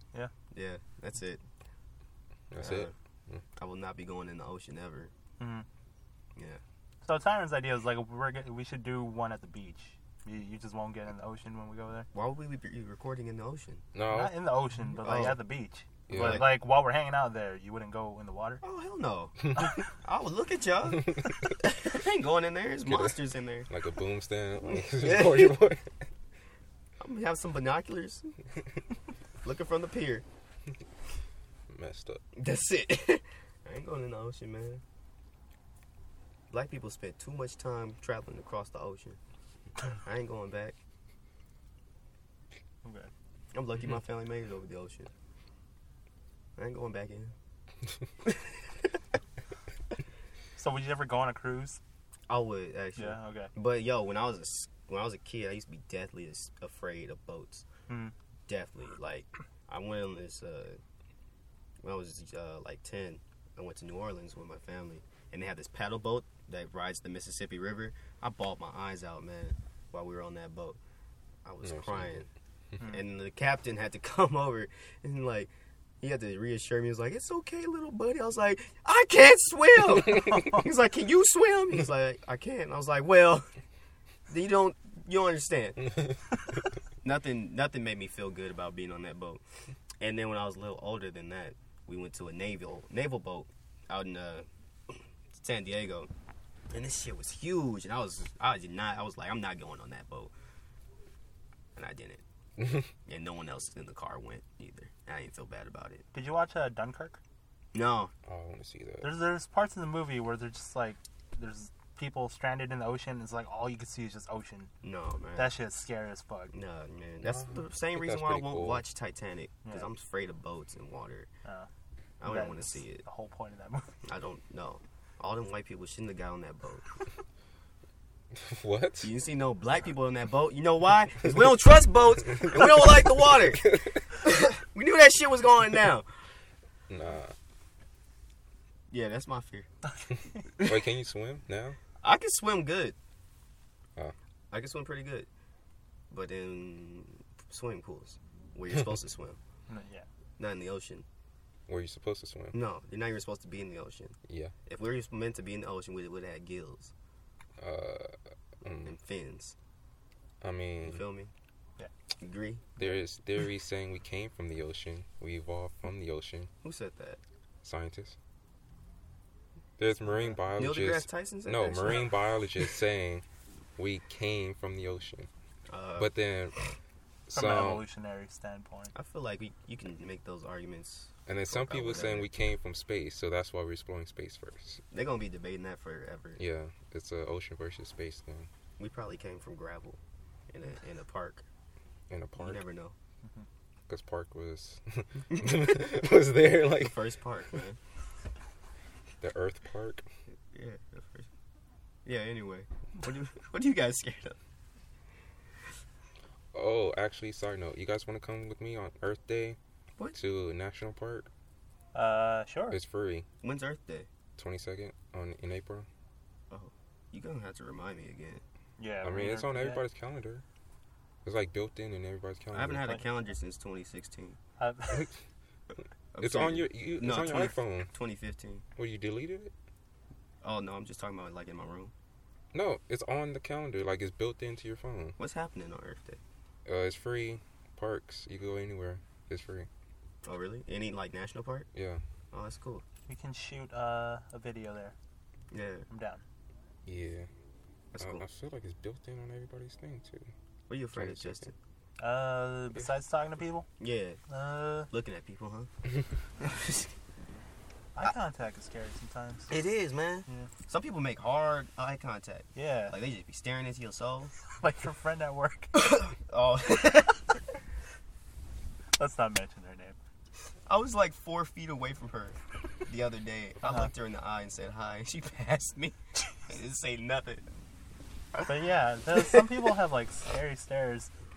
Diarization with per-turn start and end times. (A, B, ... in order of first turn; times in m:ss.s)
0:00.5-0:01.4 A
0:02.5-0:03.4 B
0:02.6-0:02.9 A
0:03.6-0:05.1 A
0:05.4-0:05.6 C
0:06.4-0:06.6 A
0:07.0-0:12.1 C
0:12.1-0:13.8 A
0:13.9-0:14.4 B
0:14.1-0:18.6 C
0:15.0-0:15.4 A
0:16.1-0:16.5 B
0:16.1-0:16.5 A
0:18.6-0:23.7 A
0:22.8-0:23.2 B
0:23.7-0:25.9 B
0:24.7-0:25.6 A
0:27.0-0:28.4 A
0:29.4-0:30.2 A
0:31.7-0:32.2 B
0:32.4-0:34.8 A
0:36.5-0:39.2 A
0:39.8-0:40.8 A
0:42.8-0:43.1 C
0:43.5-0:45.1 A
0:46.6-0:47.3 A
0:48.2-0:48.6 A
0:50.6-0:51.8 C
0:52.3-0:57.6 A
0:53.0-0:53.5 C
0:58.5-1:00.8 A
1:01.8-1:10.8 A
1:11.4-1:12.3 A
1:11.6-1:12.2 B
1:12.8-1:23.5 A
1:24.3-1:25.9 A
1:27.0-1:29.4 A
1:30.0-1:36.1 A
1:36.7-1:40.3 A
1:41.7-1:42.2 A
1:43.0-1:46.0 A
1:46.1-1:47.2 C
1:47.7-1:48.1 A
1:48.2-1:49.1 B
1:49.0-1:54.7 C
1:54.8-1:55.5 A
1:55.4-1:56.5 C
1:56.5-2:01.3 A
1:57.2-1:58.8 B
1:59.6-1:59.9 C
2:02.2-2:03.0 A
2:02.2-2:04.0 C
2:04.0-2:06.8 A
2:08.3-2:09.1 B
2:09.0-2:16.1 A
2:13.6-2:14.0 B
2:16.9-2:17.3 B
2:18.9-2:19.7 A
2:20.5-2:21.8 B
2:22.0-2:23.0 A
2:24.5-2:25.3 A
2:26.1-2:29.4 A
2:29.7-2:30.0 C
2:30.4-2:31.0 A
2:31.7-2:32.6 B
2:32.5-2:36.9 A
2:34.3-2:34.5 B
2:37.6-2:39.0 B
2:38.8-2:39.5 A
2:40.4-2:41.0 B
2:40.8-2:41.3 A
2:42.2-2:43.0 A
2:42.8-2:46.5 B
2:46.6-2:47.2 A
2:47.6-2:48.2 B
2:49.8-2:53.2 B
2:50.6-2:52.2 A
2:53.8-2:55.3 B
2:55.7-2:56.1 A
2:56.0-2:56.6 B
2:57.3-2:57.8 B
2:57.3-2:58.9 C
2:58.9-3:02.3 A
3:01.3-3:04.8 B
3:04.9-3:06.4 A
3:06.4-3:08.5 B
3:08.8-3:11.4 A
3:12.1-3:12.6 B
3:12.4-3:13.0 A
3:13.9-3:17.0 B
3:15.4-3:15.8 A
3:16.7-3:17.8 A
3:19.2-3:20.0 B
3:20.5-3:21.3 A
3:22.0-3:24.4 A
3:26.5-3:29.6 B
3:30.1-3:31.3 B
3:31.9-3:32.8 C
3:32.7-3:33.2 B
3:33.4-3:34.1 A
3:34.4-3:35.9 B
3:36.5-3:38.4 A
3:38.8-3:39.8 C
3:39.0-3:40.4 B
3:41.2-3:42.9 B
3:42.5-3:44.4 A
3:44.6-3:45.1 C
3:46.1-3:48.6 A
3:46.2-3:47.9 B
3:48.8-3:49.5 B
3:50.4-3:51.9 A
3:52.5-3:55.2 B
3:55.2-3:56.2 A
3:56.6-3:59.7 B
4:00.2-4:01.7 A
4:01.7-4:02.0 B
4:02.3-4:02.8 A
4:03.1-4:04.9 C
4:05.5-4:05.9 A
4:05.9-4:06.2 C
4:06.8-4:07.3 B
4:07.9-4:08.2 A
4:08.0-4:10.3 B
4:10.7-4:11.5 A
4:10.9-4:11.5 B
4:12.0-4:13.7 C
4:13.8-4:14.2 A
4:14.3-4:14.9 C
4:14.9-4:15.7 A
4:16.4-4:16.9 A
4:18.0-4:19.6 C
4:19.5-4:24.3 A
4:22.5-4:23.0 C
4:24.5-4:25.7 C
4:25.7-4:27.4 A
4:29.0-4:30.0 C
4:30.7-4:37.4 A
4:33.6-4:33.9 C
4:38.4-4:41.1 C